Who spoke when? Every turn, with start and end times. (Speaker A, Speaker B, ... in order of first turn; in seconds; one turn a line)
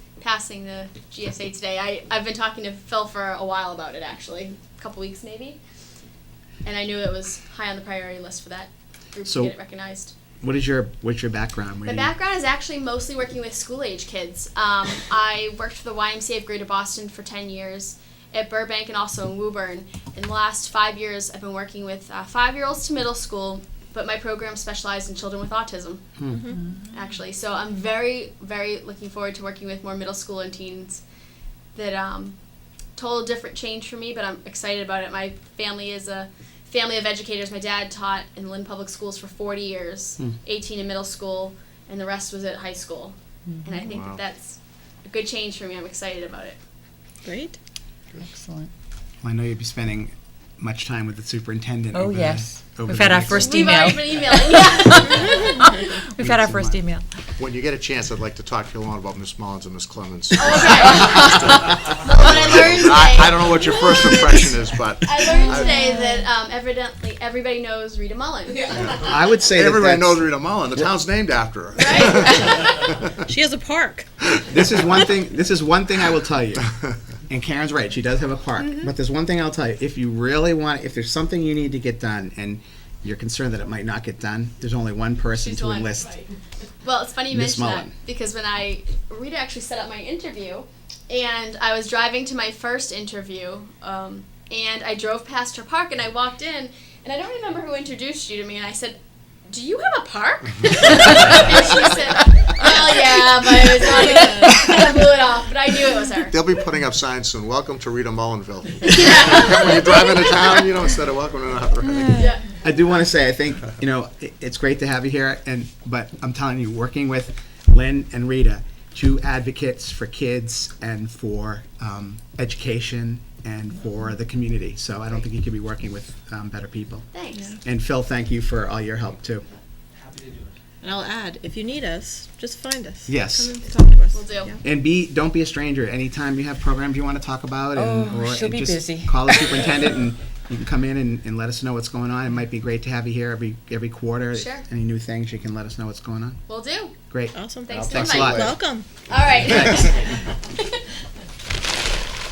Speaker A: 0.2-5.6
Speaker A: 6.6-10.1
Speaker B: 9.3-9.5
Speaker B: 10.4-12.1
Speaker A: 11.8-26.2
Speaker A: 26.9-31.0
Speaker A: 31.8-32.4
Speaker A: 33.0-46.6
Speaker C: 43.5-43.9
Speaker D: 43.9-44.2
Speaker E: 47.2-47.6
Speaker C: 48.2-48.7
Speaker B: 49.2-53.7
Speaker C: 51.9-57.0
Speaker A: 53.3-55.6
Speaker B: 56.2-56.8
Speaker D: 57.4-65.9
Speaker A: 60.4-69.2
Speaker C: 65.4-66.0
Speaker B: 68.9-70.9
Speaker D: 69.4-73.2
Speaker A: 71.8-73.0
Speaker E: 73.3-74.1
Speaker B: 74.5-76.7
Speaker B: 77.3-86.1
Speaker A: 85.3-86.3
Speaker A: 86.8-106.3
Speaker B: 87.3-87.9
Speaker E: 104.0-104.7
Speaker D: 106.3-112.3
Speaker A: 108.9-110.0
Speaker A: 112.2-112.5
Speaker B: 112.6-127.1
Speaker A: 127.1-127.6
Speaker B: 127.6-129.5
Speaker E: 130.8-134.6
Speaker B: 133.1-133.6
Speaker A: 134.1-134.6
Speaker B: 134.6-146.4
Speaker C: 137.8-139.5
Speaker A: 144.3-144.7
Speaker A: 146.5-146.9
Speaker B: 147.1-147.4
Speaker E: 147.3-149.1
Speaker A: 147.6-150.8
Speaker D: 147.7-148.5
Speaker B: 147.9-148.5
Speaker B: 149.5-149.8